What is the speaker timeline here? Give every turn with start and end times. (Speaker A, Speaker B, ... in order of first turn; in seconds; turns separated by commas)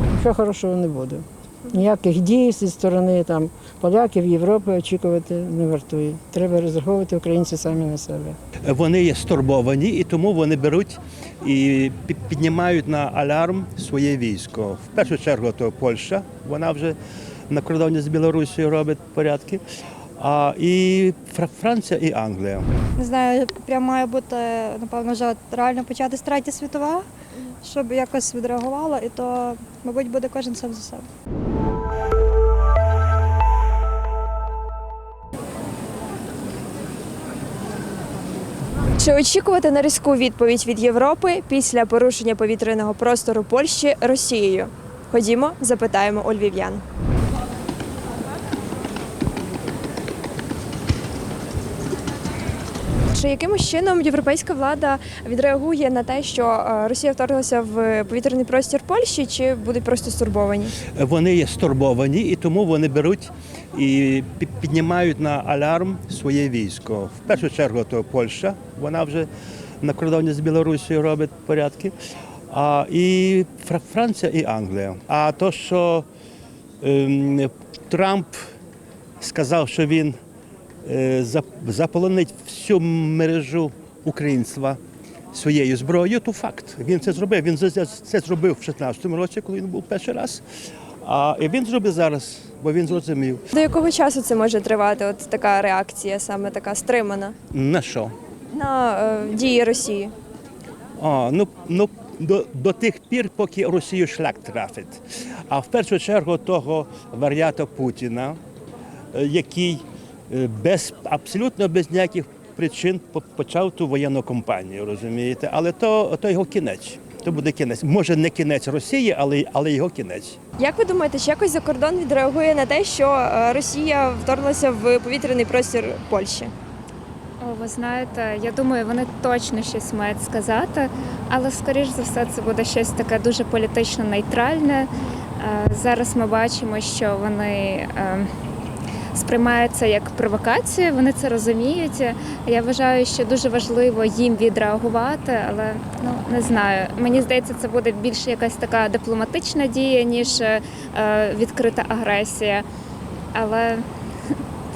Speaker A: 0.1-8.4, Speaker B: 8.6-16.9, Speaker B: 17.5-19.6, Speaker B: 20.2-22.7, Speaker C: 23.0-27.1, Speaker C: 27.6-31.1, Speaker D: 39.0-46.8, Speaker D: 53.1-60.8, Speaker B: 60.9-69.3, Speaker B: 69.8-71.9, Speaker B: 72.5-76.1, Speaker B: 76.8-78.4, Speaker B: 79.2-80.2, Speaker B: 80.8-84.8, Speaker B: 85.3-90.4, Speaker B: 91.0-93.4, Speaker D: 93.5-97.3, Speaker B: 97.5-98.1, Speaker D: 98.5-100.1, Speaker B: 101.0-108.4, Speaker B: 109.1-120.4, Speaker D: 120.6-126.5, Speaker E: 127.4-134.9, Speaker E: 135.4-138.3, Speaker E: 139.1-152.6, Speaker E: 153.3-153.8